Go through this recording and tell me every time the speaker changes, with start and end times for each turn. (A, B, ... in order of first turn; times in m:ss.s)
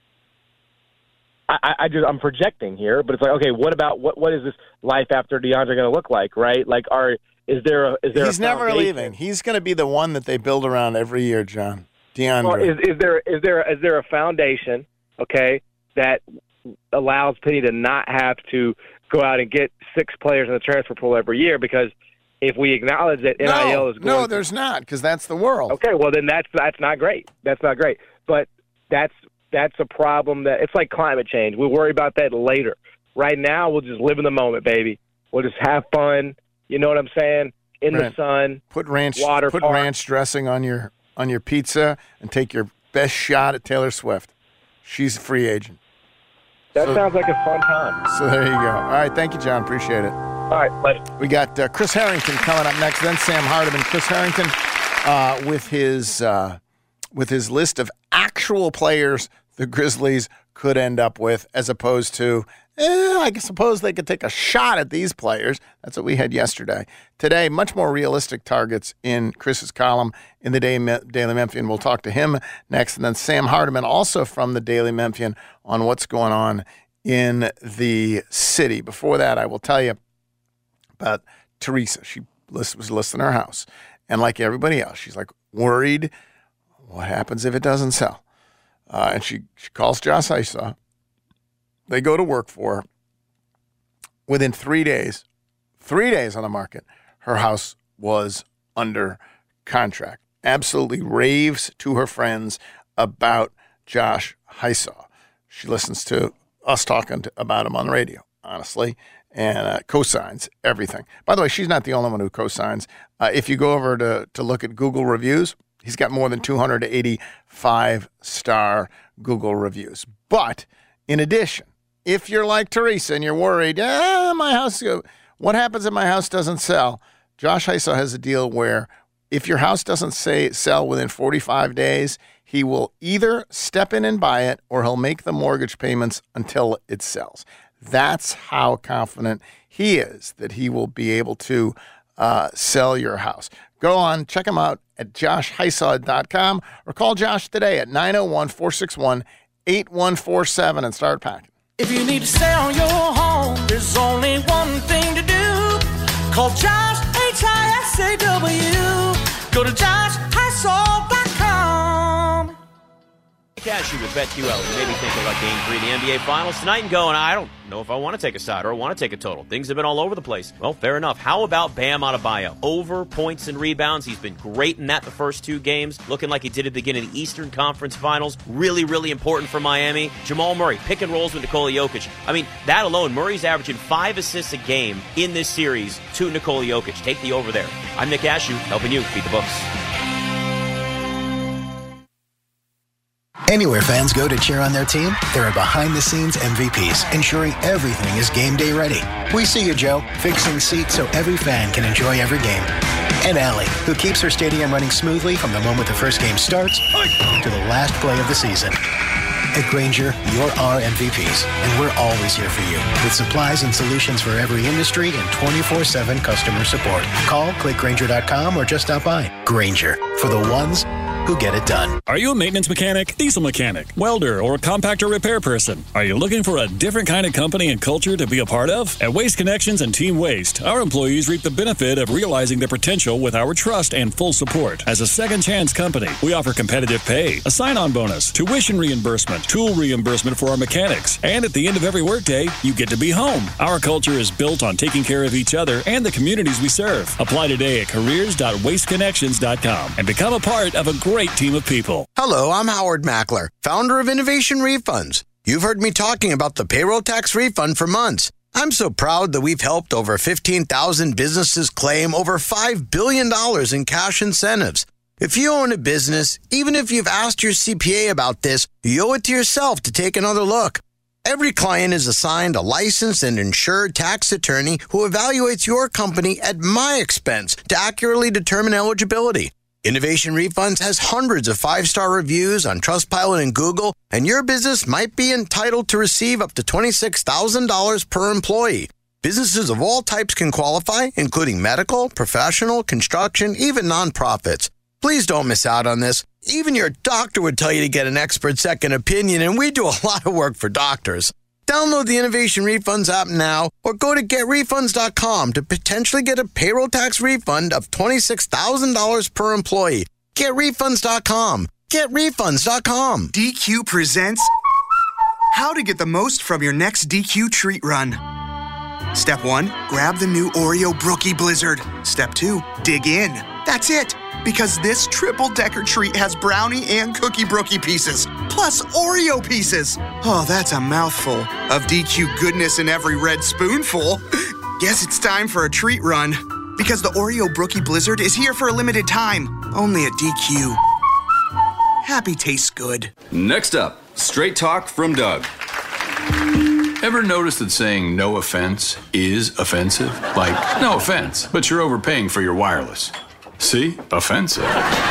0:01.5-0:09.1 A
0:08.1-0:12.7 B
0:12.4-0:16.2 A
0:16.9-0:24.4 A
0:23.4-0:25.8 B
0:25.7-0:38.6 A
0:38.7-0:44.3 B
0:39.2-0:39.9 A
0:44.8-0:45.8 B
0:46.8-0:48.0 A
0:48.1-0:50.2 B
0:50.5-0:51.0 A
0:51.2-0:56.6 B
0:57.1-1:20.0 B
1:21.0-1:26.1 B
1:26.9-1:28.2 B
1:28.9-1:30.8 B
1:31.9-1:32.8 B
1:34.3-1:35.2 B
1:35.8-2:31.5 B
2:31.8-2:42.5 C
2:43.6-3:09.7 D
3:13.5-3:22.7 E
3:23.2-3:26.8 E
3:27.4-3:28.8 E
3:29.5-3:42.0 E
3:42.1-4:12.1 F
4:12.2-5:13.3 G
5:13.3-5:14.5 H
5:15.5-5:18.2 H
5:19.2-5:34.2 H
5:34.8-5:40.8 H
5:42.0-5:43.1 H
5:43.3-5:45.5 I
5:47.0-5:54.8 I